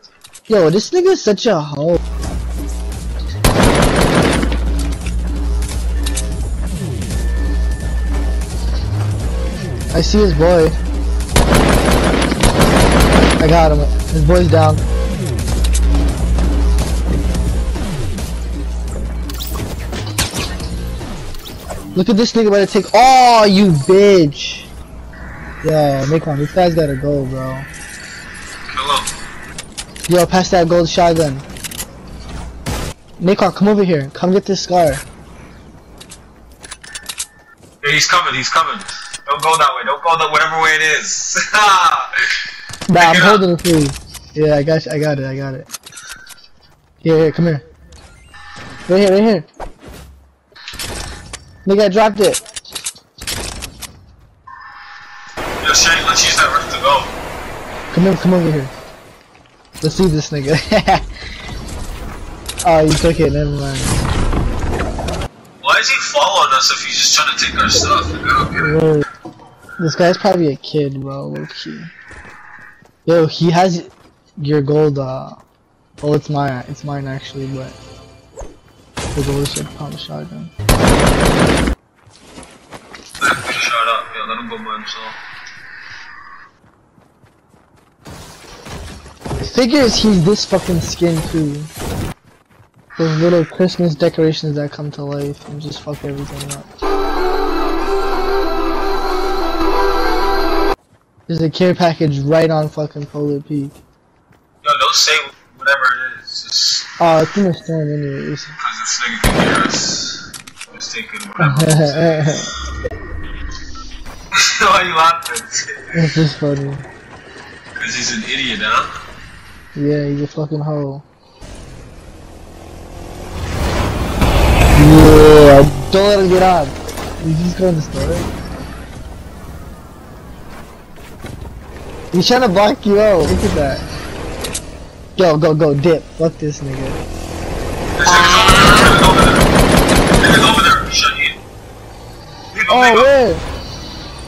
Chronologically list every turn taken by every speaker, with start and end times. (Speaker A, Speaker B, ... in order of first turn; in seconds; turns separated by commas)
Speaker A: 0.5-2.0, Speaker A: 9.9-10.8, Speaker A: 13.4-14.8, Speaker A: 21.9-24.7, Speaker A: 25.6-27.7, Speaker B: 28.7-29.1, Speaker A: 30.1-31.4, Speaker A: 33.2-35.0, Speaker B: 37.8-42.1, Speaker A: 42.9-45.7, Speaker B: 42.9-43.4, Speaker A: 47.0-47.6, Speaker A: 48.9-49.5, Speaker A: 51.6-52.4, Speaker B: 55.6-57.1, Speaker A: 57.9-58.7, Speaker A: 59.8-61.0, Speaker A: 62.6-64.1, Speaker B: 65.6-68.7, Speaker A: 68.6-69.1, Speaker A: 69.8-71.9, Speaker A: 73.0-75.4, Speaker A: 76.0-77.8, Speaker A: 79.1-80.5, Speaker B: 83.2-85.2, Speaker A: 89.4-91.7, Speaker A: 93.0-96.7, Speaker A: 101.3-103.8, Speaker B: 104.6-106.9, Speaker A: 107.0-108.5, Speaker B: 108.6-112.1, Speaker A: 111.4-112.5, Speaker B: 114.3-115.8, Speaker A: 115.9-116.8, Speaker B: 117.7-118.9, Speaker A: 119.7-121.0, Speaker A: 124.7-128.3, Speaker A: 132.1-133.9, Speaker A: 135.2-137.0, Speaker B: 138.0-139.5, Speaker A: 138.1-139.0, Speaker B: 140.2-141.4, Speaker B: 142.5-143.1, Speaker A: 142.7-143.4